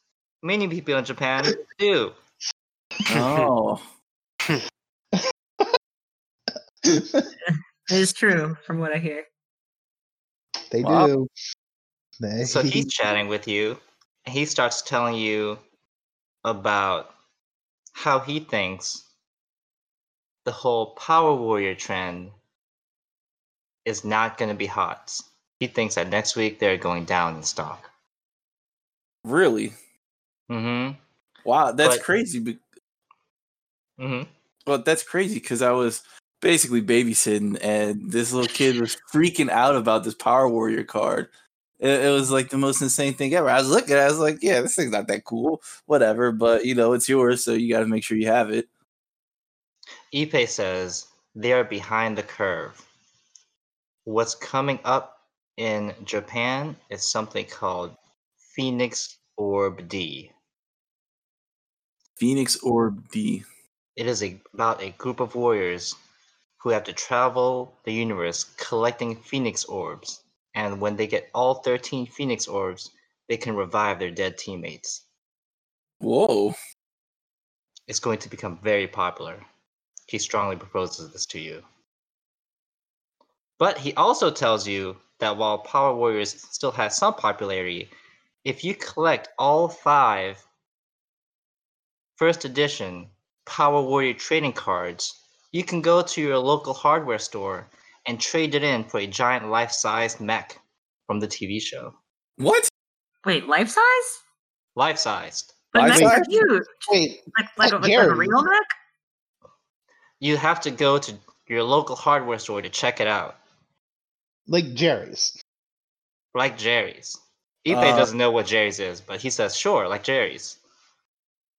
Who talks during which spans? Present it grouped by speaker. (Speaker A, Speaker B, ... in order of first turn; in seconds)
Speaker A: 0.4-2.1, 12.4-15.6, 16.4-17.1, 17.9-19.1, 20.4-22.3, 23.9-27.8, 30.5-31.0, 34.0-34.3, 50.1-52.8, 54.1-60.3, 64.0-66.0, 66.6-75.0, 77.9-79.5, 80.1-81.7, 83.6-87.9, 88.5-90.4, 92.2-102.0, 104.8-105.7, 110.2-113.4, 116.3-120.6
Speaker B: 3.1-3.8, 10.8-11.1, 29.2-29.7, 31.4-32.6, 34.7-41.3, 41.8-48.7, 62.2-63.5, 76.0-76.6, 102.4-102.7, 105.8-106.3, 117.7-118.1
Speaker C: 6.8-7.3, 10.7-11.3, 12.2-12.9, 105.9-106.3, 106.9-108.4, 114.5-115.4
Speaker D: 7.9-9.3, 103.2-104.2, 105.7-108.7